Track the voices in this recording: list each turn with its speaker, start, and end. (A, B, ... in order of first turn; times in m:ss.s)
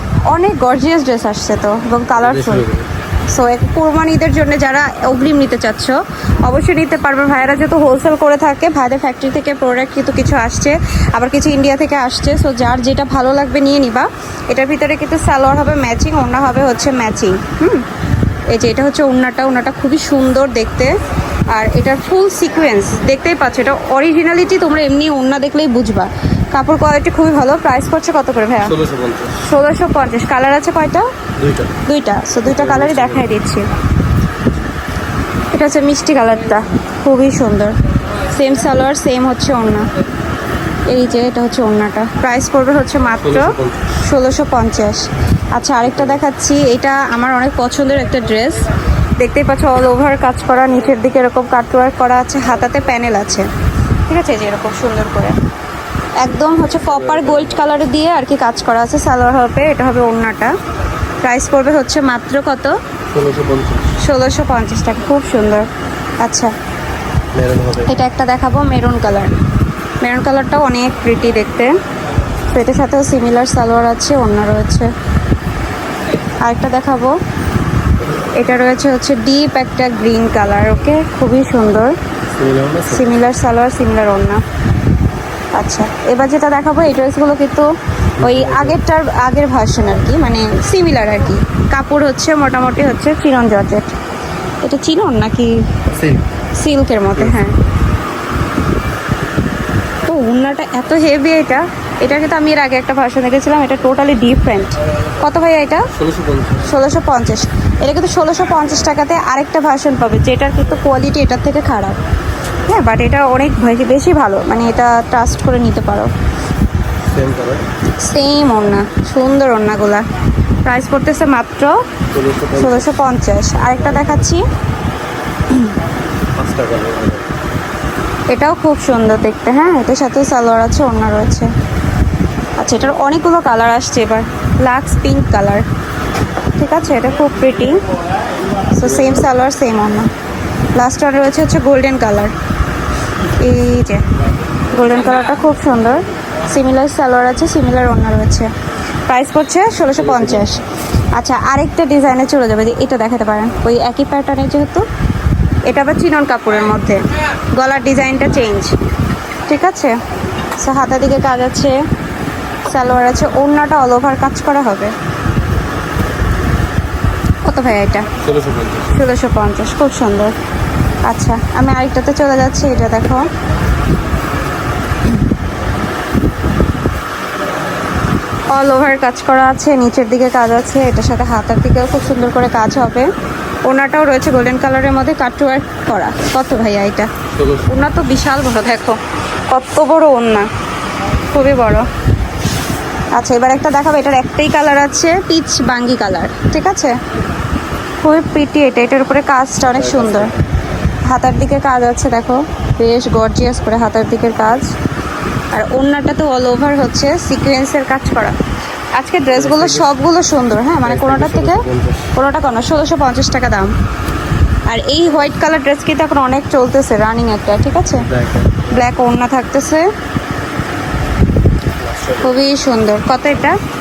0:00.3-0:02.7 A
0:02.2-0:02.9 B
0:03.3-0:17.9 A
0:18.5-0:21.0 A
0:21.5-0:28.8 A
0:28.6-0:29.4 B
0:29.4-0:31.1 A
0:31.4-0:31.8 B
0:31.8-0:33.7 A
0:32.5-0:33.3 B
0:35.5-0:37.8 A
0:38.3-0:39.9 A
0:40.9-0:48.6 A
0:43.2-0:43.8 B
0:45.9-0:46.2 B
0:49.2-0:53.5 A
0:54.1-0:55.4 A
0:56.2-1:00.6 A
0:56.9-0:57.5 B
1:01.2-1:02.8 A
1:03.1-1:03.9 B
1:04.0-1:05.7 A
1:06.2-1:06.5 A
1:07.3-1:07.9 B
1:07.8-1:09.4 A
1:10.0-1:11.7 A
1:12.5-1:14.9 A
1:16.4-1:17.2 A
1:18.3-1:22.0 A
1:22.4-1:23.2 B
1:22.9-1:24.4 A
1:25.5-1:33.9 A
1:28.2-1:28.8 B
1:34.6-1:35.7 A
1:35.9-1:36.2 B
1:36.6-1:37.6 A
1:40.0-1:45.9 A
1:45.9-1:46.7 B
1:46.6-1:52.0 A
1:52.7-1:56.1 A
1:57.1-1:57.6 B
1:58.0-2:00.1 A
2:00.6-2:01.8 A
2:02.1-2:03.0 B
2:02.5-2:04.5 A
2:06.4-2:07.2 B
2:08.3-2:11.5 A
2:12.6-2:15.6 A
2:16.6-2:17.8 A
2:18.7-2:20.1 A
2:20.8-2:22.3 A
2:23.4-2:24.0 A
2:24.7-2:28.5 A
2:29.1-2:30.6 A
2:30.0-2:30.5 B
2:31.2-2:34.8 A
2:35.7-2:37.0 A
2:37.6-2:38.8 A
2:39.5-2:40.0 A
2:40.6-2:41.8 A
2:42.7-2:44.9 A
2:47.4-2:48.1 A
2:48.2-2:49.0 B
2:48.9-2:50.3 A
2:51.0-2:53.3 A
2:58.5-3:03.1 A
3:03.6-3:07.1 A
3:07.3-3:07.7 B
3:07.7-3:10.5 A
3:11.3-3:11.9 A
3:13.2-3:17.0 A
3:18.0-3:20.3 A
3:19.7-3:20.4 B
3:21.1-3:24.7 A
3:25.5-3:28.4 A
3:28.9-3:33.8 A
3:29.3-3:29.9 B
3:30.8-3:32.1 B
3:34.7-3:38.1 A
3:38.0-3:38.6 B
3:38.6-3:39.9 A
3:41.8-3:42.4 B
3:42.2-3:43.6 A